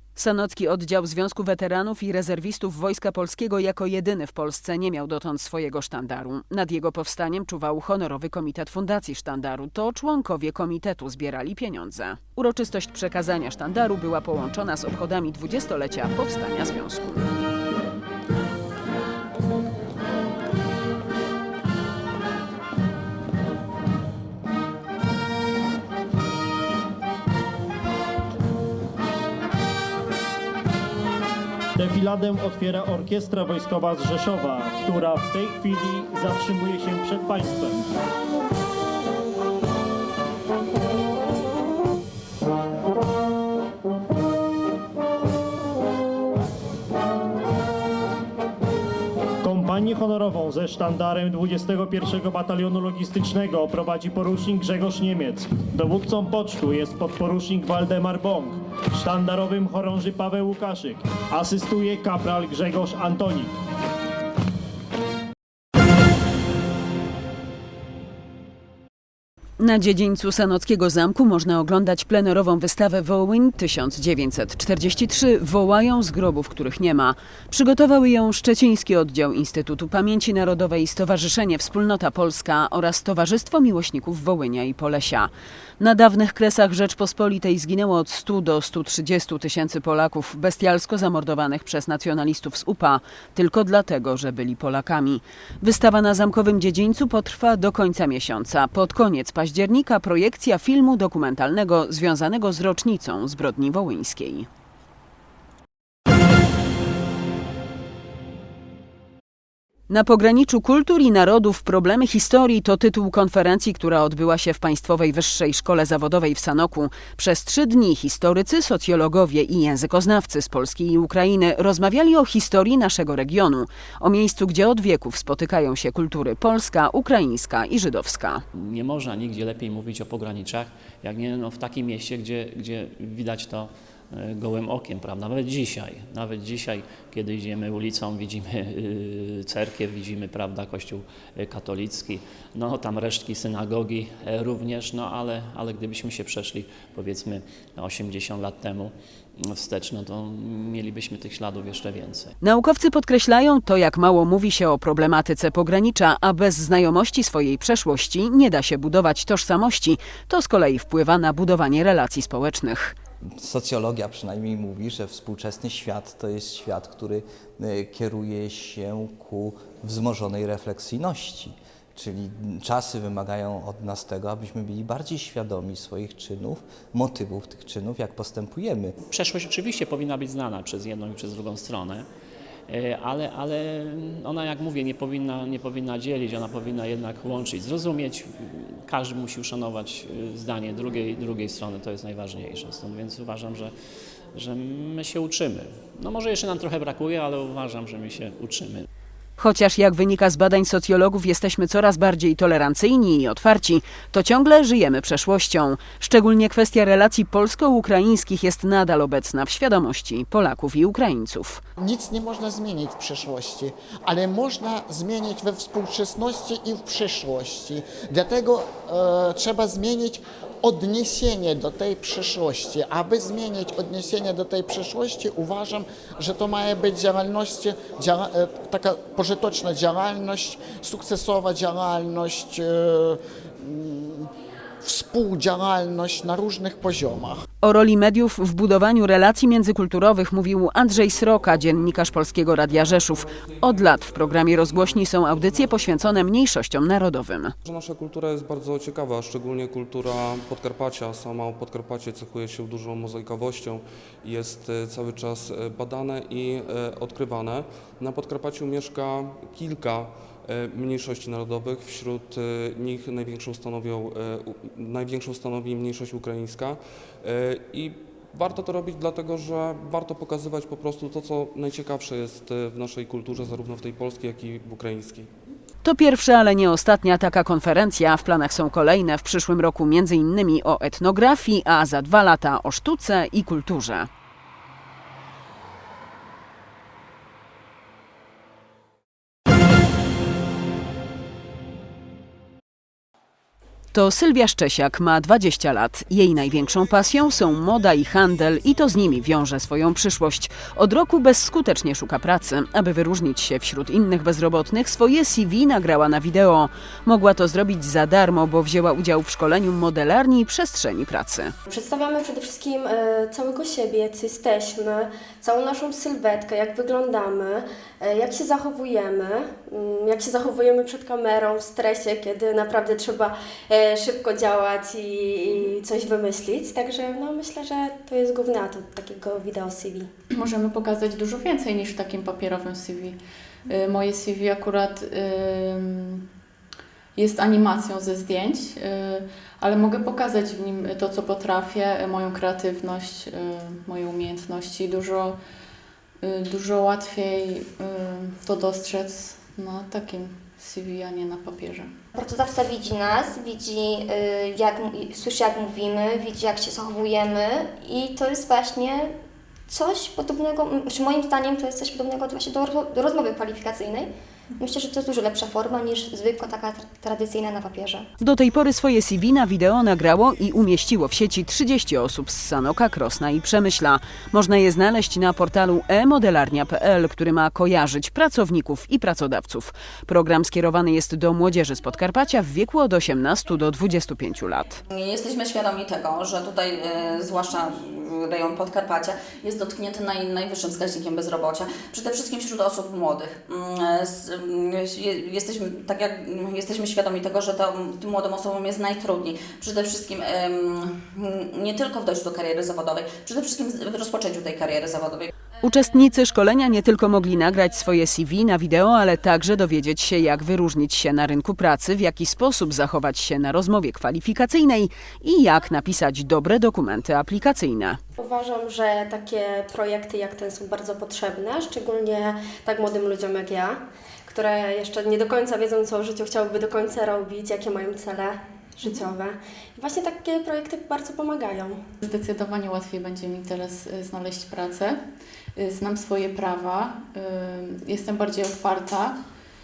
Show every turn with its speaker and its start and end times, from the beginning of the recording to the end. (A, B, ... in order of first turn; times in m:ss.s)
0:00.2-0:17.3 A
0:31.8-0:37.8 B
0:49.4-1:03.6 B
1:09.6-1:44.5 A
1:49.9-2:08.4 A
2:08.6-2:32.3 C
2:32.4-2:43.0 A
2:43.2-2:59.0 D
2:59.1-3:02.1 C
3:02.7-3:13.7 C
3:14.3-3:18.9 C
3:19.4-3:31.6 A
3:31.8-3:54.3 E
3:54.8-3:57.4 E
3:57.6-4:07.5 A
4:07.6-4:35.3 F
4:35.8-4:44.1 A
4:53.9-5:11.5 A
5:11.7-5:30.1 G
5:30.3-5:36.3 H
5:37.2-5:45.4 H
5:46.2-5:51.9 H
5:52.1-5:59.2 I
5:59.7-6:08.1 I
6:08.2-6:24.8 A
6:24.9-6:45.3 J
6:45.6-6:58.0 A
6:58.2-7:11.8 G
7:12.0-7:15.0 H
7:15.6-7:19.2 H